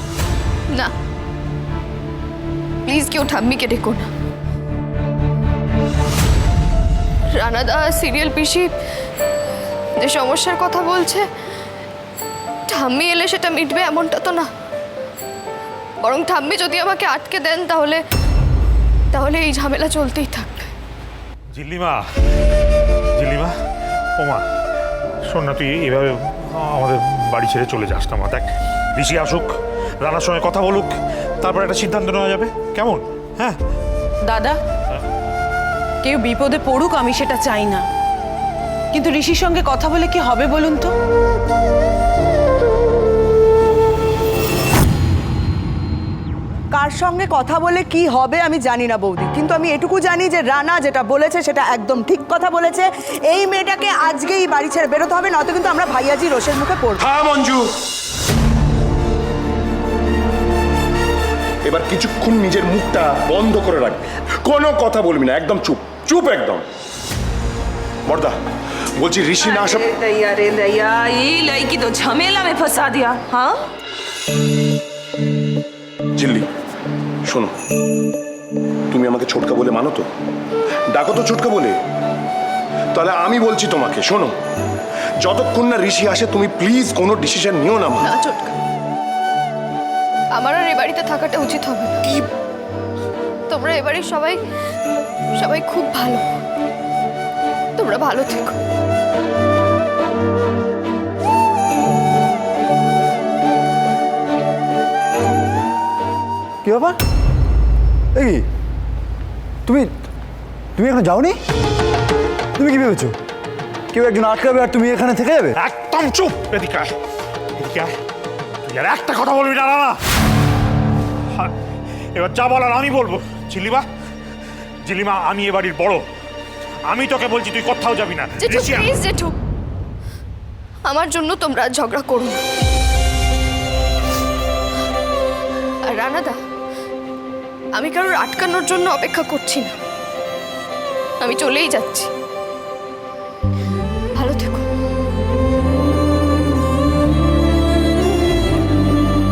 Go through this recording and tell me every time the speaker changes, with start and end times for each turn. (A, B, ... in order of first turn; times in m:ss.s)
0:02.8-0:04.1 A
0:07.4-0:08.7 A
0:10.0-0:11.3 A
0:12.7-0:14.5 A
0:16.0-0:18.0 A
0:19.1-0:20.7 A
0:21.5-0:22.0 B
0:23.2-0:23.5 B
0:24.2-0:24.4 B
0:25.3-0:33.6 B
0:34.3-0:34.6 C
0:36.0-0:37.8 C
0:38.9-0:40.9 C
0:46.7-0:57.1 D
0:57.0-0:57.7 E
1:01.6-1:06.7 E
1:08.1-1:08.4 E
1:09.0-1:09.9 E
1:09.4-1:13.6 F
1:16.2-1:16.5 E
1:17.3-1:17.5 E
1:18.9-1:20.1 E
1:20.9-1:21.8 E
1:22.9-1:24.4 E
1:25.2-1:28.1 E
1:28.0-1:28.6 A
1:30.4-1:32.0 A
1:33.5-1:34.4 A
1:35.4-1:36.3 A
1:37.8-1:38.6 A
1:46.6-1:47.0 G
1:48.2-1:48.5 G
1:49.6-1:50.0 G
1:50.8-1:51.4 G
1:52.6-1:53.2 G
1:53.9-1:55.6 G
1:55.6-1:56.9 B
1:57.6-1:57.9 B
1:58.6-2:00.0 B
2:02.2-2:03.8 B
2:04.8-2:06.0 B
2:06.9-2:08.9 B
2:08.4-2:09.3 A
2:10.9-2:12.4 A
2:15.8-2:16.4 A
2:17.8-2:19.7 A
2:21.2-2:22.1 A
2:24.2-2:24.7 A